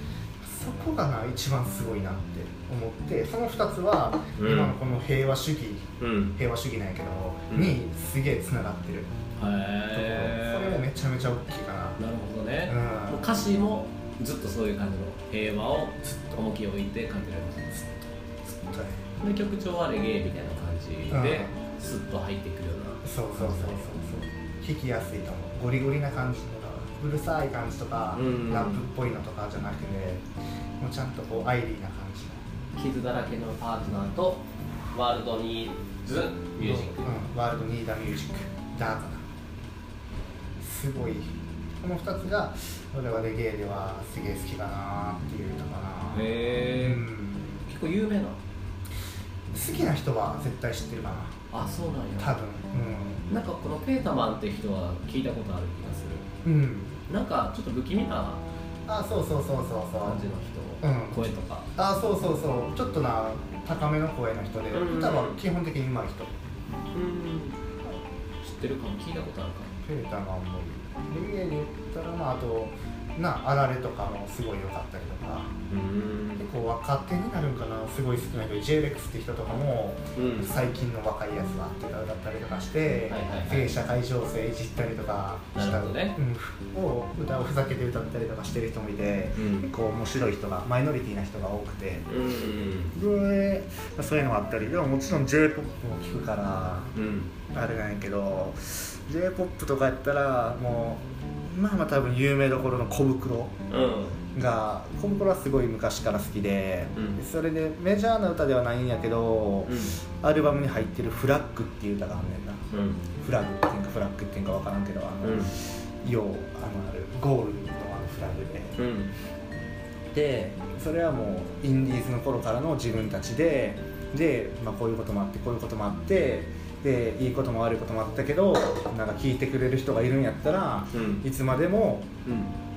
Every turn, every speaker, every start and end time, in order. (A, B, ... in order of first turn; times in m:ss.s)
0:00.4-0:09.1 A
0:04.4-0:04.7 B
0:06.0-0:06.3 B
0:07.5-0:07.8 B
0:09.4-0:10.8 B
0:09.9-0:12.0 A
0:12.0-0:17.9 B
0:12.6-0:13.3 A
0:18.5-0:19.0 A
0:19.2-0:24.0 B
0:21.1-0:21.5 A
0:23.0-0:30.2 A
0:28.1-0:28.8 B
0:30.8-0:32.4 A
0:32.8-0:37.1 B
0:36.6-0:39.2 A
0:40.6-0:47.6 A
0:46.1-0:47.0 B
0:47.6-0:48.4 B
0:49.5-0:51.4 A
0:51.5-0:52.4 B
0:52.2-0:53.2 A
0:53.3-0:56.2 B
0:56.4-0:57.0 A
0:57.1-0:58.4 B
0:58.9-1:00.2 A
1:00.0-1:01.7 B
1:00.8-1:06.3 A
1:04.7-1:05.4 B
1:06.9-1:07.6 B
1:08.4-1:09.7 B
1:09.8-1:15.5 A
1:15.7-1:16.4 B
1:16.4-1:32.1 A
1:20.1-1:20.6 B
1:23.1-1:23.7 B
1:25.5-1:26.2 B
1:29.3-1:29.7 B
1:32.1-1:33.0 B
1:32.9-1:36.9 A
1:36.9-1:37.3 B
1:37.5-1:43.5 A
1:43.7-1:44.2 B
1:44.3-1:52.6 A
1:49.6-1:50.0 B
1:52.7-1:53.0 B
1:53.2-1:58.8 A
1:55.2-1:55.5 B
1:58.8-1:59.1 B
2:00.1-2:12.1 A
2:10.9-2:11.2 B
2:12.2-2:12.5 B